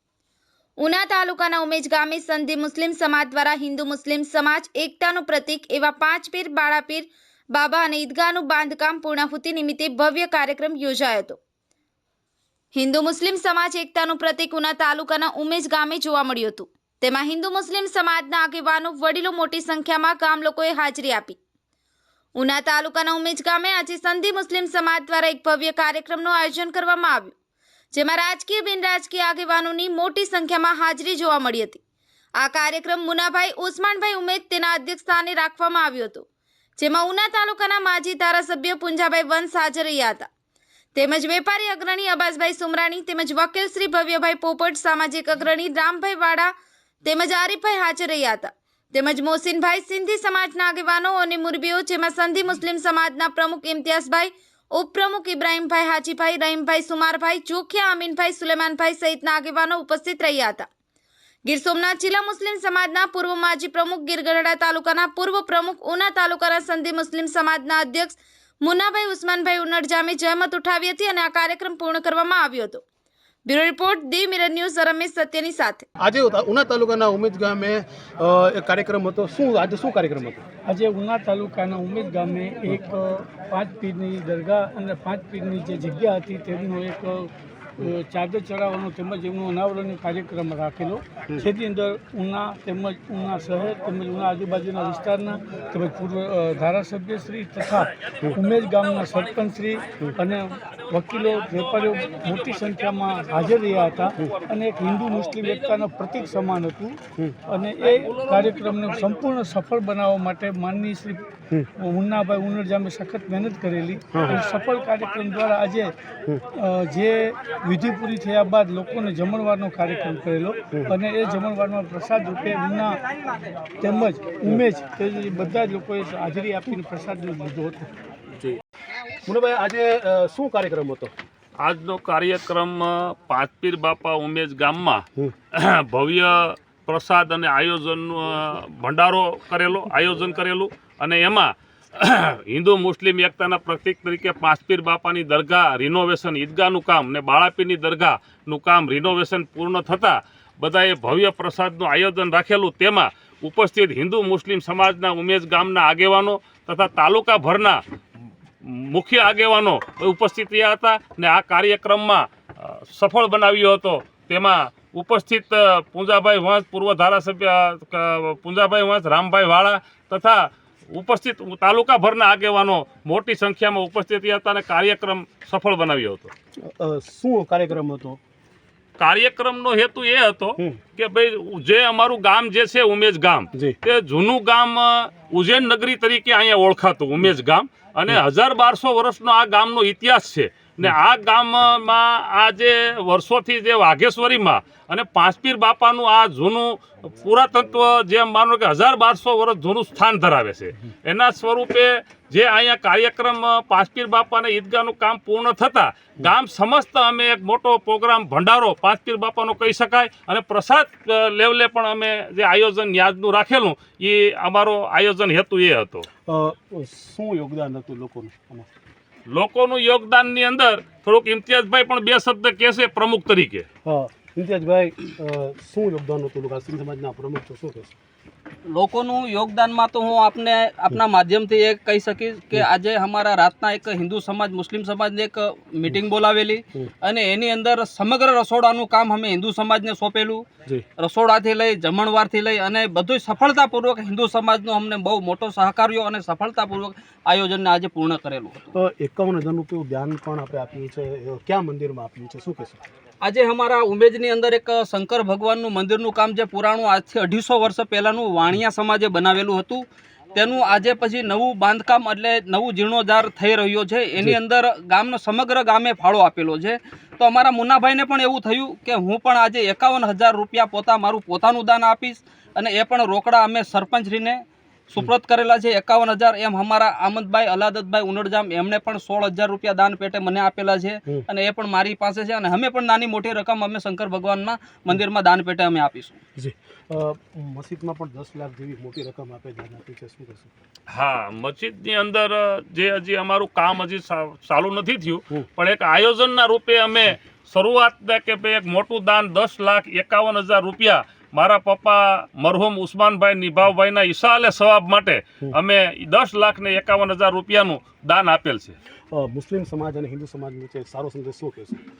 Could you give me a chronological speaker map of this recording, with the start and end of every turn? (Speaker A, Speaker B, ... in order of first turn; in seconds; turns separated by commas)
Speaker A: 0.8-11.4, Speaker A: 12.7-21.4, Speaker A: 22.3-27.3, Speaker A: 27.9-31.8, Speaker A: 32.4-36.3, Speaker A: 36.8-40.3, Speaker A: 40.9-46.5, Speaker A: 47.0-60.7, Speaker A: 61.4-72.8, Speaker A: 73.5-75.8, Speaker B: 76.0-80.4, Speaker C: 80.7-111.2, Speaker C: 111.8-115.9, Speaker B: 114.1-114.4, Speaker C: 116.5-123.0, Speaker C: 123.8-127.9, Speaker B: 129.2-131.1, Speaker D: 131.6-157.8, Speaker D: 158.6-176.3, Speaker B: 176.6-178.2, Speaker D: 179.0-216.1, Speaker B: 216.3-218.7, Speaker D: 219.3-223.7, Speaker B: 223.8-227.9, Speaker E: 228.7-240.4, Speaker E: 241.0-248.7, Speaker B: 248.7-252.8, Speaker E: 253.2-286.2, Speaker B: 286.4-290.5, Speaker D: 290.9-308.8, Speaker B: 309.1-311.9